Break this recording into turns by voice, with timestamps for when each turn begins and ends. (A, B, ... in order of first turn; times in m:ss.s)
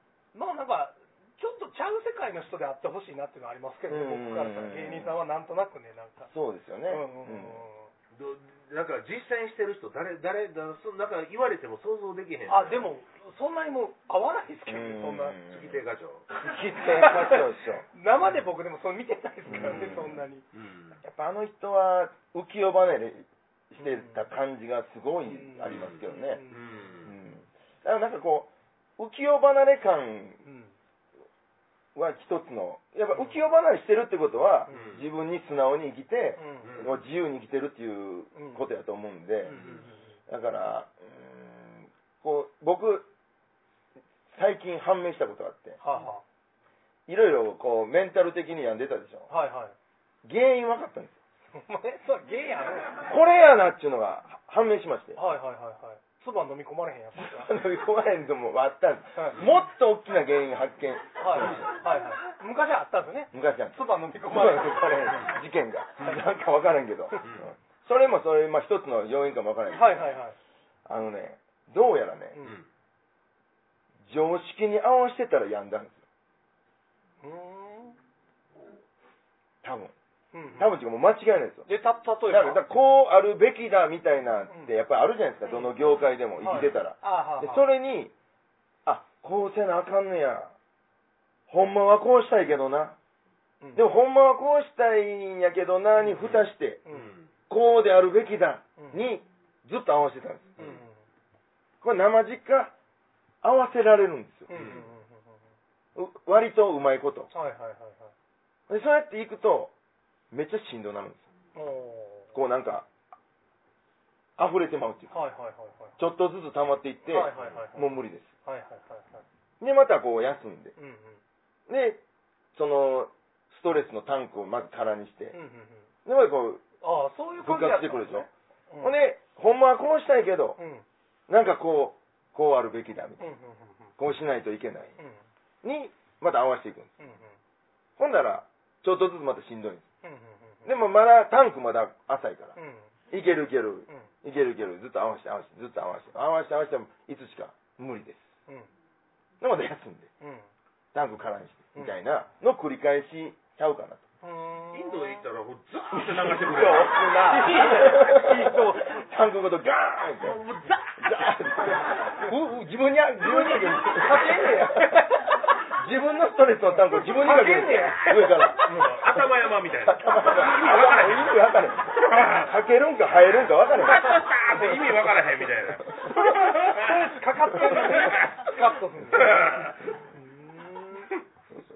0:00.3-0:06.3 A
0:03.9-0:05.1 B
0:06.3-0:07.6 B
0:06.9-0:07.9 A
0:08.1-0:12.9 C
0:12.5-0:15.4 A
0:14.7-0:15.8 B
0:15.5-0:16.3 C
0:16.4-0:17.8 B
0:16.9-0:20.4 A
0:19.5-0:20.2 B
0:19.5-0:21.0 C
0:21.0-0:26.4 B
0:23.8-0:24.2 A
0:25.2-0:26.9 A
0:25.6-0:27.1 C
0:27.0-0:30.4 B
0:30.4-0:30.7 A
0:31.9-0:39.6 B
0:34.7-0:35.0 A
0:34.7-0:35.0 C
0:36.4-0:36.8 A
0:36.6-0:37.0 C
0:38.3-0:38.6 A
0:39.4-0:40.1 A
0:39.5-0:39.8 C
0:40.3-0:43.1 B
0:44.3-0:45.8 B
0:45.8-0:46.2 A
0:47.1-0:49.3 B
0:49.3-0:49.7 A
0:50.2-0:51.2 B
0:51.5-0:53.1 A
0:53.1-0:55.2 B
0:55.2-0:57.5 A
0:57.2-1:01.6 B
0:59.2-0:59.4 A
1:01.2-1:05.3 A
1:01.4-1:01.6 C
1:03.3-1:10.1 B
1:05.1-1:05.3 C
1:07.2-1:07.5 C
1:09.7-1:10.3 A
1:10.8-1:12.4 B
1:14.0-1:16.0 B
1:17.2-1:18.0 A
1:19.6-1:19.9 B
1:20.3-1:20.7 A
1:20.6-1:21.7 B
1:21.7-1:22.6 A
1:22.3-1:28.1 B
1:26.4-1:27.7 A
1:28.8-1:30.5 B
1:31.5-1:33.0 B
1:33.6-1:33.9 A
1:33.7-1:36.8 B
1:36.2-1:37.3 C
1:36.8-1:37.1 A
1:37.5-1:40.6 B
1:38.8-1:39.0 A
1:40.6-1:41.0 A
1:41.8-1:42.7 B
1:43.4-1:44.5 B
1:44.5-1:45.4 A
1:44.5-1:44.9 C
1:46.0-1:47.3 B
1:47.3-1:48.1 A
1:48.7-1:49.7 B
1:50.3-1:51.2 B
1:51.5-1:52.3 A
1:52.3-1:52.9 B
1:54.4-1:55.1 B
1:55.1-1:55.9 A
1:56.0-1:58.3 B
1:57.1-1:59.2 A
1:59.6-2:00.7 B
2:00.8-2:01.2 A
2:01.7-2:02.0 B
2:02.5-2:05.4 B
2:05.3-2:05.9 A
2:06.0-2:06.6 B
2:06.8-2:09.0 A
2:07.4-2:08.3 B
2:08.8-2:10.6 B
2:10.6-2:10.8 A
2:11.3-2:13.2 B
2:13.2-2:13.9 A
2:14.0-2:14.9 B
2:15.0-2:15.2 A
2:15.6-2:16.9 B
2:17.0-2:17.4 A
2:18.0-2:19.8 B
2:20.0-2:20.7 A
2:20.6-2:22.6 B
2:22.6-2:22.9 A
2:23.1-2:28.3 B
2:29.4-2:30.1 B
2:30.2-2:30.5 A
2:30.9-2:34.0 B
2:34.2-2:35.2 A
2:34.7-2:37.0 C
2:35.9-2:40.4 B
2:37.0-2:39.0 A
2:40.2-2:42.1 C
2:41.0-2:49.2 B
2:41.9-2:42.2 A
2:43.2-2:45.5 A
2:46.9-2:48.5 A
2:48.1-2:51.4 C
2:49.8-2:54.1 B
2:51.9-2:52.5 C
2:53.7-2:58.5 C
2:55.9-2:56.4 B
2:56.1-3:01.1 A
2:57.5-2:58.3 B
2:59.1-2:59.9 C